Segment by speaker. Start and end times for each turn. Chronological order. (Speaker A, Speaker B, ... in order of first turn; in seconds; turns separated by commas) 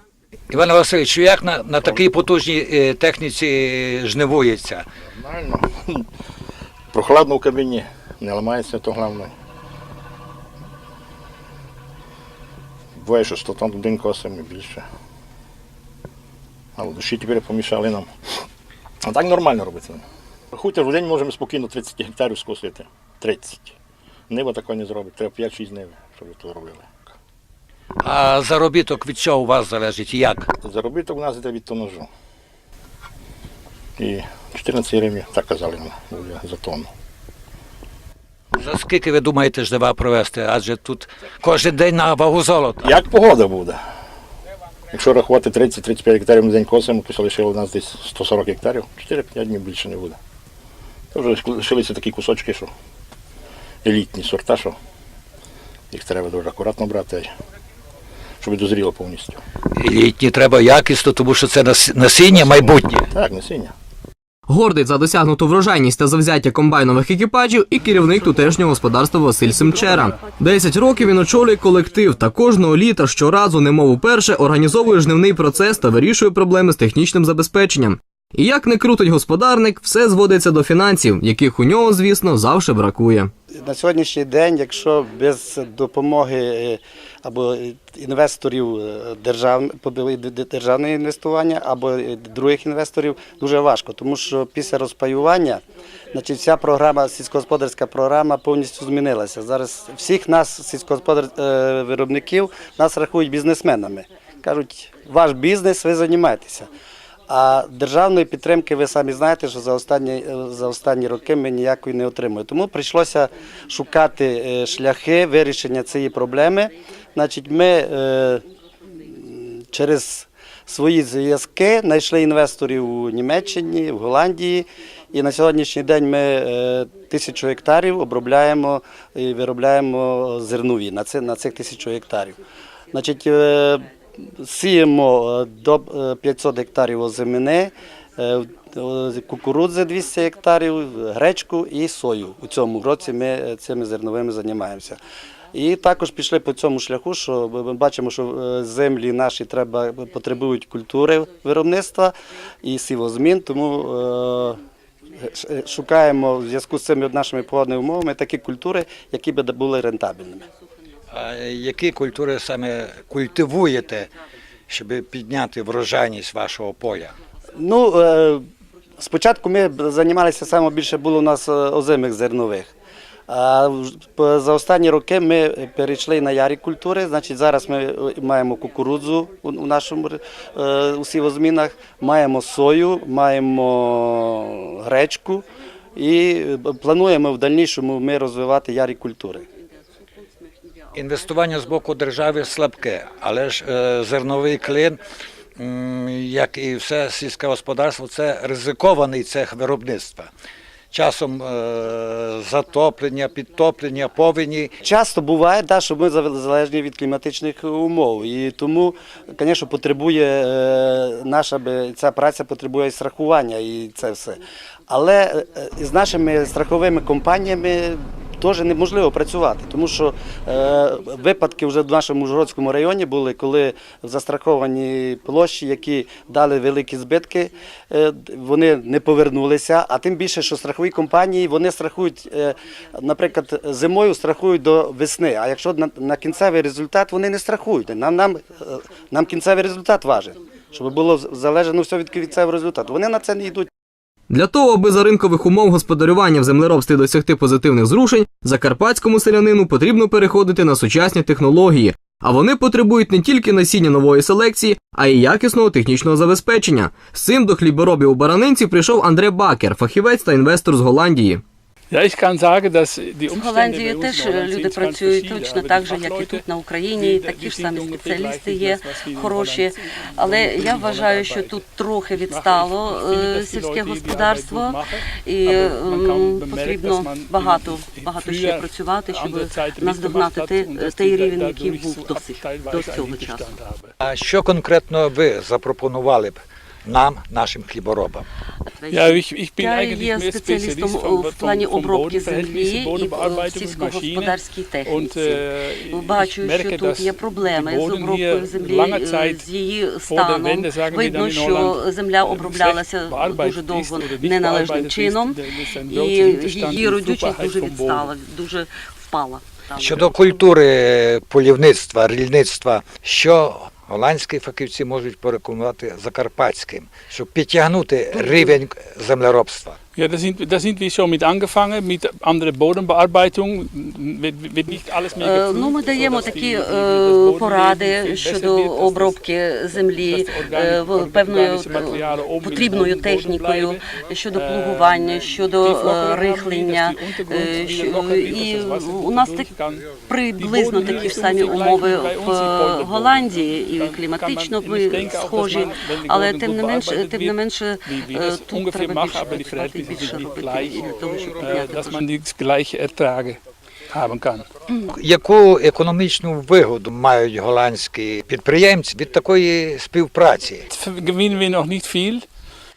Speaker A: 0.5-4.8, Speaker B: 5.1-6.1, Speaker B: 6.9-9.3, Speaker B: 12.9-14.8, Speaker B: 16.8-18.4, Speaker B: 19.0-23.8, Speaker B: 24.3-27.1, Speaker A: 28.0-30.5, Speaker B: 30.6-32.1, Speaker B: 34.0-36.9, Speaker A: 38.5-43.0, Speaker B: 42.8-43.8, Speaker B: 44.9-50.2, Speaker B: 51.1-52.7, Speaker B: 53.8-54.8, Speaker B: 55.9-57.3, Speaker B: 58.4-59.4, Speaker A: 59.8-63.1, Speaker B: 62.3-63.7, Speaker C: 64.5-83.3, Speaker D: 83.5-95.6, Speaker D: 96.1-106.7, Speaker D: 107.3-118.4, Speaker D: 119.0-132.4, Speaker D: 132.9-145.0, Speaker D: 145.5-154.6, Speaker D: 155.2-160.4, Speaker A: 161.1-164.1, Speaker A: 164.7-167.1, Speaker D: 167.6-168.4, Speaker D: 169.0-172.7, Speaker D: 173.3-189.4, Speaker A: 190.9-195.0, Speaker A: 195.6-200.3, Speaker A: 200.9-204.7, Speaker D: 204.8-243.7, Speaker C: 244.3-261.4, Speaker E: 261.9-283.9, Speaker F: 263.3-283.5, Speaker A: 284.0-288.2, Speaker F: 288.7-310.1, Speaker E: 288.9-299.5, Speaker E: 300.1-308.1, Speaker A: 309.8-319.8, Speaker F: 318.1-318.5, Speaker E: 319.9-329.2, Speaker F: 325.1-352.0, Speaker E: 329.7-354.5, Speaker A: 354.9-360.6, Speaker E: 360.7-362.2